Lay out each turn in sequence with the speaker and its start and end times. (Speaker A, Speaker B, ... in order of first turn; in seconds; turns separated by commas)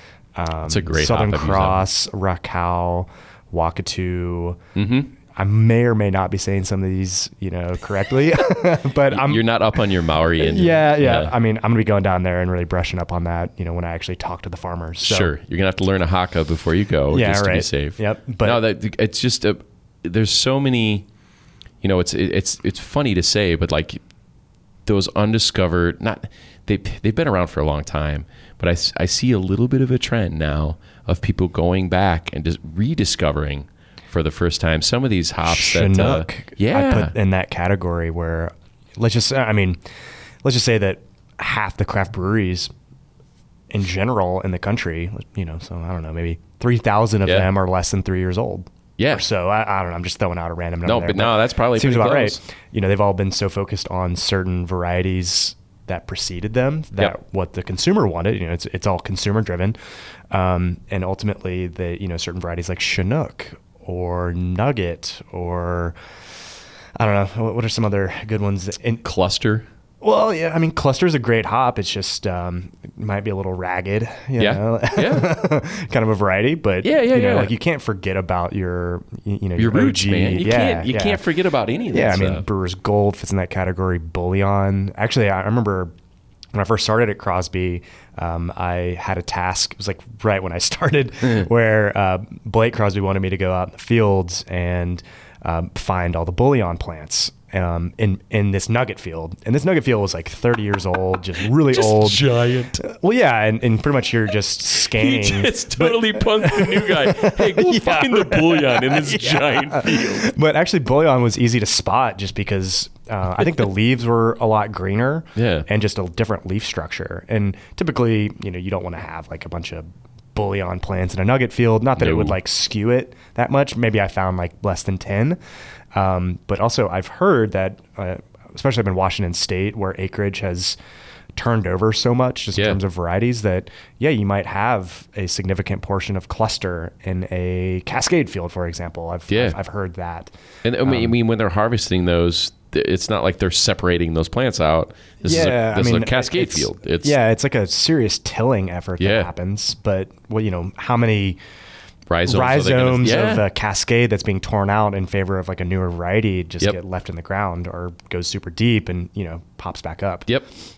Speaker A: 0.3-4.6, Speaker B: 0.6-1.8, Speaker B: 4.7-5.1, Speaker A: 5.3-9.4, Speaker B: 9.0-11.3, Speaker A: 10.3-15.3, Speaker B: 15.0-21.1, Speaker A: 17.1-18.6, Speaker B: 21.8-24.0, Speaker B: 24.9-37.1, Speaker A: 35.4-39.8, Speaker A: 40.4-42.7, Speaker A: 43.7-59.8, Speaker B: 49.0-49.2, Speaker B: 50.8-52.4, Speaker A: 60.3-65.9, Speaker A: 67.0-69.0, Speaker B: 69.0-69.7, Speaker A: 70.0-81.3, Speaker B: 74.4-75.3, Speaker B: 76.8-77.5, Speaker B: 79.6-82.4, Speaker A: 81.9-85.9, Speaker A: 86.5-125.4, Speaker B: 101.6-102.8, Speaker B: 104.8-110.3, Speaker B: 115.3-115.7, Speaker B: 122.0-122.3, Speaker A: 125.9-130.8, Speaker A: 131.3-140.3, Speaker B: 139.3-139.6, Speaker B: 140.6-147.2, Speaker A: 140.8-141.1, Speaker A: 145.2-151.4, Speaker B: 149.0-149.3, Speaker B: 152.1-153.4, Speaker A: 152.2-160.3